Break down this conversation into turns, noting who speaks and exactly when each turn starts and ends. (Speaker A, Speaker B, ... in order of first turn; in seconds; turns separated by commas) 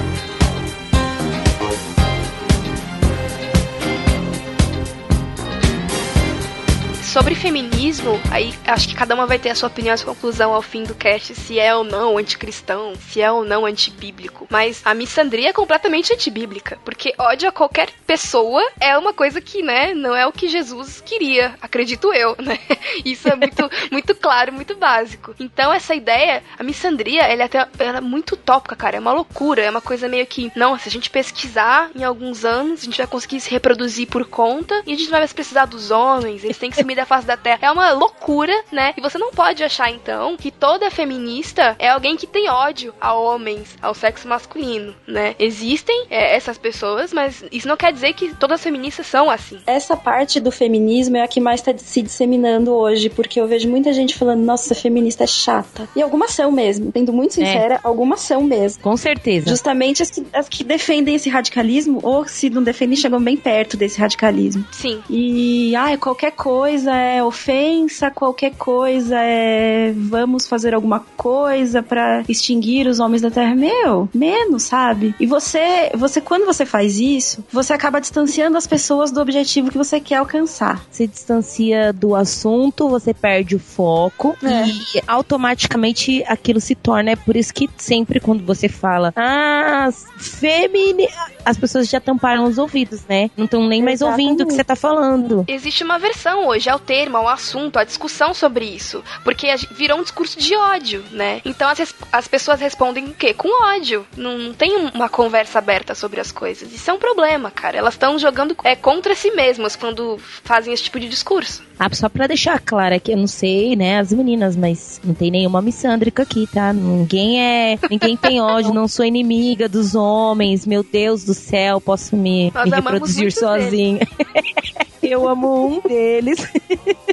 Speaker A: 7.0-49.6, Speaker B: 49.7-58.8, Speaker C: 57.4-57.7, Speaker C: 58.8-59.6, Speaker B: 59.4-80.8, Speaker A: 64.7-65.1, Speaker C: 80.9-95.5, Speaker B: 84.4-84.7, Speaker B: 93.8-94.6, Speaker A: 95.5-111.6, Speaker C: 111.8-127.0, Speaker A: 122.6-123.8